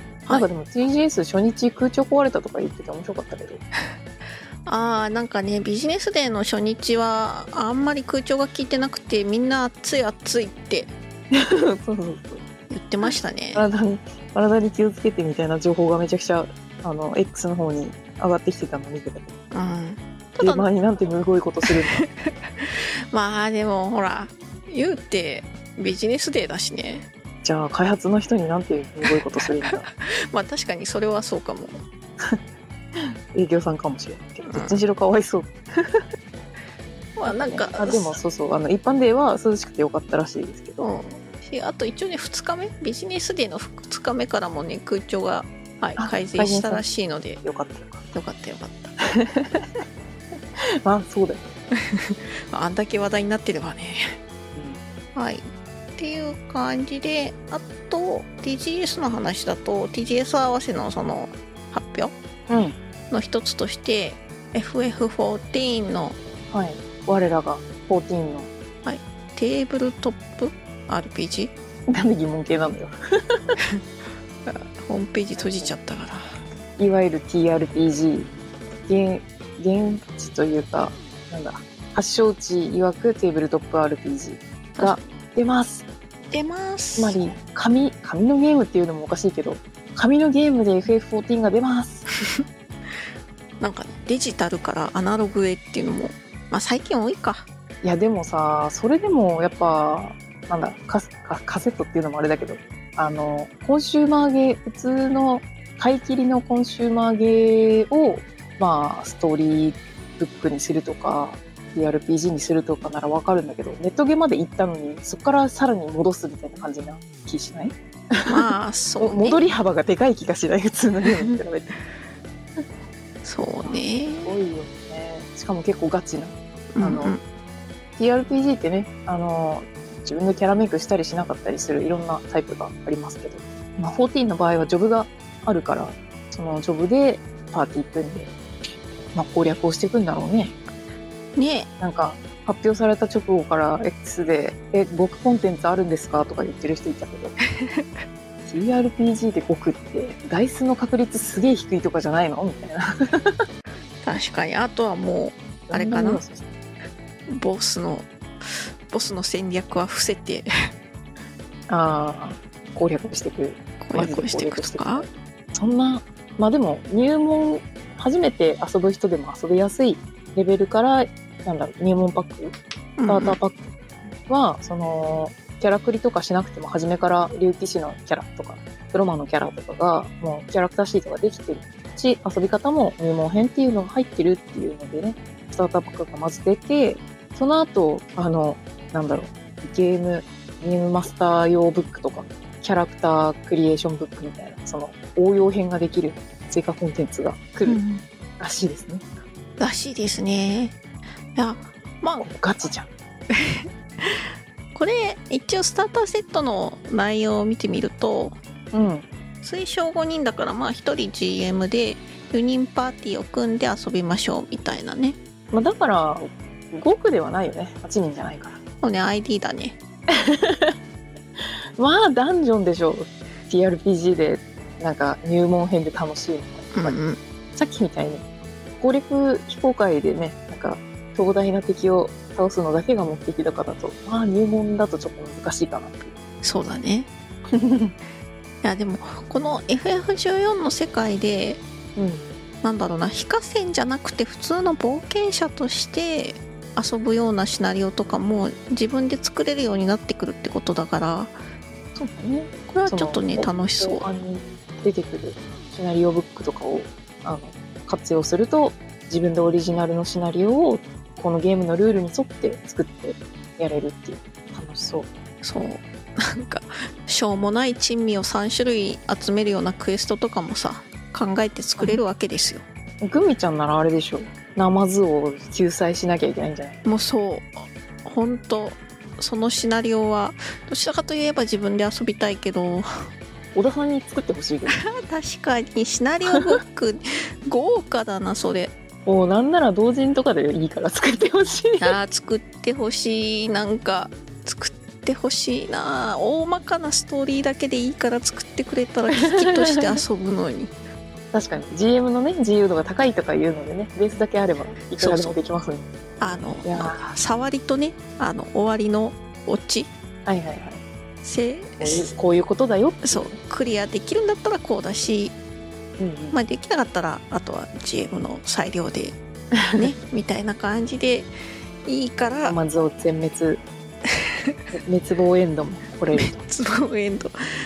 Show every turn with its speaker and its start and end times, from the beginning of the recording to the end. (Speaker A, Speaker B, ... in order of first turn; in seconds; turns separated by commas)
Speaker A: 0.3-3.6, Speaker B: 4.7-10.9, Speaker A: 11.3-12.4, Speaker B: 12.7-13.6, Speaker A: 13.5-19.3, Speaker B: 19.5-20.7, Speaker A: 20.4-22.0, Speaker B: 21.7-27.1, Speaker A: 27.4-29.9, Speaker B: 29.7-31.8, Speaker A: 33.0-36.0, Speaker B: 34.5-34.8, Speaker B: 37.1-38.1, Speaker A: 37.2-40.8, Speaker B: 40.8-47.4, Speaker A: 46.0-46.8, Speaker A: 47.4-48.1, Speaker B: 48.1-48.9, Speaker A: 49.1-49.8, Speaker A: 50.8-51.5, Speaker B: 51.9-54.0, Speaker A: 54.5-54.8, Speaker B: 55.1-55.4, Speaker B: 56.0-62.1, Speaker A: 62.5-62.8, Speaker B: 63.1-66.2, Speaker A: 66.5-68.5, Speaker B: 68.8-71.5, Speaker A: 71.9-72.9, Speaker B: 74.5-76.3, Speaker A: 75.3-75.8, Speaker A: 76.8-78.3, Speaker A: 78.9-85.9, Speaker B: 86.3-87.2, Speaker A: 87.0-92.1, Speaker B: 93.6-97.5, Speaker A: 97.8-118.5, Speaker B: 118.3-119.4, Speaker A: 119.0-121.7, Speaker B: 123.2-124.3, Speaker A: 123.6-127.1, Speaker B: 126.7-127.2, Speaker A: 128.0-138.3, Speaker A: 139.1-140.6, Speaker B: 141.3-141.7, Speaker A: 141.8-147.4, Speaker B: 147.6-147.9, Speaker A: 148.4-153.3, Speaker B: 154.0-156.2, Speaker A: 155.7-156.5, Speaker B: 157.3-160.5, Speaker A: 161.7-172.5, Speaker B: 163.8-165.1, Speaker B: 173.0-173.4, Speaker A: 173.1-173.7, Speaker A: 174.3-197.8, Speaker B: 197.7-198.0, Speaker A: 198.4-199.1, Speaker B: 199.6-200.8, Speaker B: 201.3-202.3, Speaker A: 202.2-202.9, Speaker B: 203.3-208.3, Speaker A: 208.7-209.1, Speaker B: 209.4-215.2, Speaker A: 215.5-218.6, Speaker B: 218.8-219.8, Speaker A: 220.1-220.8, Speaker A: 221.8-227.0, Speaker B: 226.7-227.2, Speaker A: 227.6-228.2, Speaker A: 228.8-236.1, Speaker B: 236.4-237.1, Speaker A: 237.5-237.9, Speaker B: 238.6-241.6, Speaker A: 241.9-242.3, Speaker B: 242.6-251.4, Speaker A: 251.9-265.1, Speaker B: 252.7-254.1, Speaker B: 265.4-272.6, Speaker A: 273.0-276.8, Speaker B: 276.8-282.9, Speaker A: 283.5-284.8, Speaker B: 284.7-288.7, Speaker A: 289.1-291.9, Speaker B: 291.8-300.7, Speaker A: 299.1-300.0, Speaker A: 301.3-305.9, Speaker B: 304.9-305.4, Speaker B: 306.2-309.9, Speaker A: 306.6-307.1, Speaker A: 310.2-310.8, Speaker B: 311.2-312.1, Speaker A: 311.8-313.4, Speaker B: 313.0-315.3, Speaker A: 316.0-316.4, Speaker B: 316.3-319.2, Speaker A: 319.6-319.9, Speaker B: 319.8-321.3, Speaker B: 321.8-322.6, Speaker A: 322.4-323.6, Speaker B: 324.3-324.6, Speaker A: 324.7-326.4, Speaker B: 326.1-327.3